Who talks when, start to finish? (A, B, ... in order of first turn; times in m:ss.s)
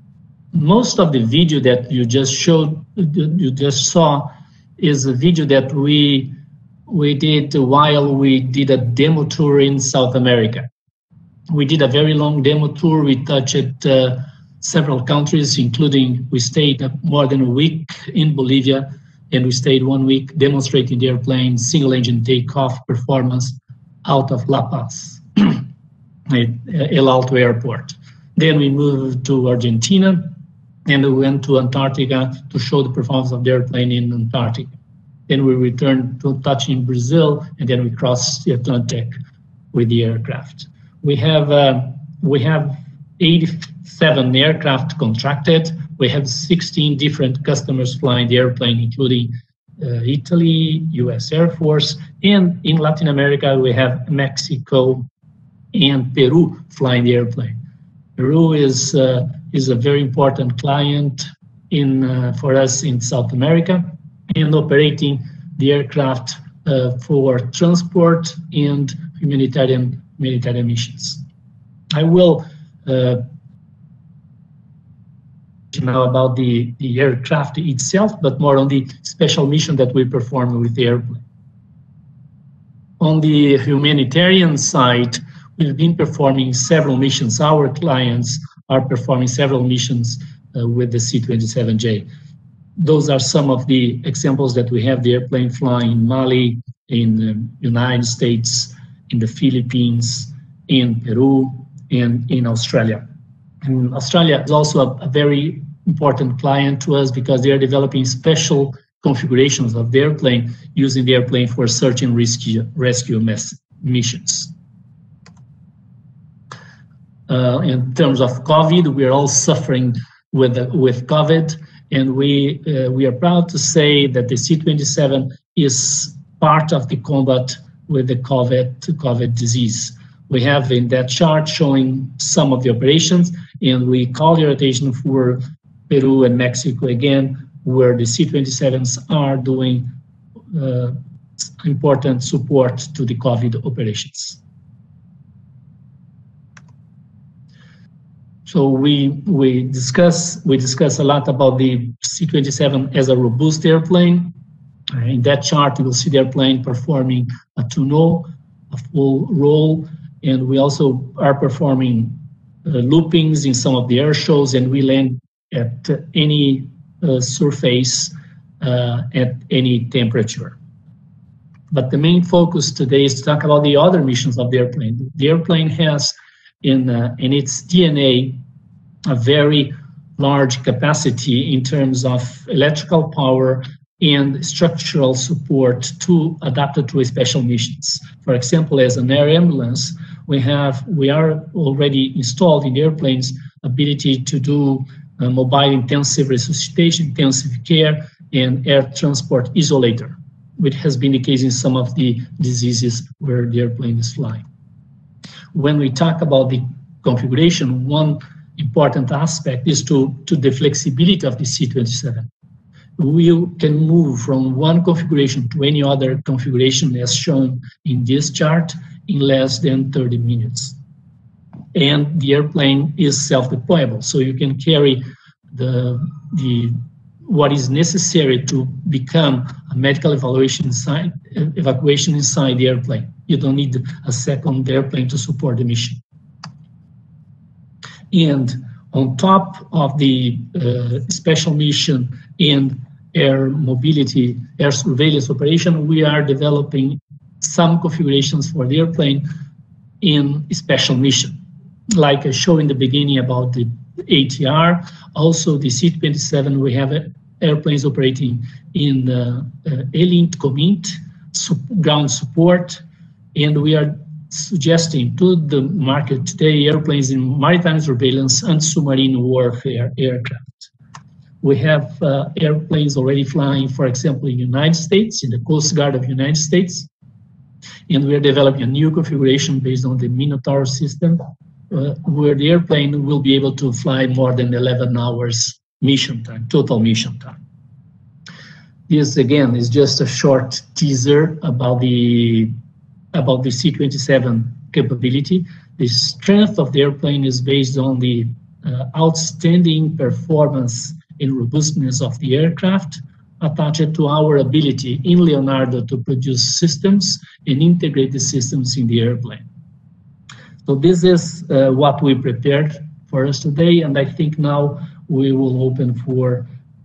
0:00.5-0:06.4 A
0:06.9-0:10.7 A
0:11.5-0:25.6 A
0:26.3-0:34.7 A
0:35.3-0:39.1 A
0:39.7-0:55.1 A
0:55.7-0:57.6 A
0:58.2-1:11.2 A
1:11.9-1:13.2 A
1:15.7-1:21.2 A
1:23.0-1:32.1 A
1:32.8-1:43.0 A
1:43.6-1:54.5 A
1:57.3-2:19.9 A
2:20.5-2:24.4 A
2:28.5-2:34.3 A
2:34.9-2:50.6 A
2:51.7-2:58.4 A
2:59.1-3:24.4 A
3:25.5-3:32.3 A
3:33.0-3:40.8 A
3:41.7-3:56.0 A
3:58.1-4:09.3 A
4:10.0-4:22.8 A
4:23.3-4:30.7 A
4:31.4-4:36.9 A
4:37.9-4:41.2 A
4:41.7-4:47.4 A
4:48.9-4:52.5 A
4:53.1-5:09.5 A
5:10.6-5:16.5 A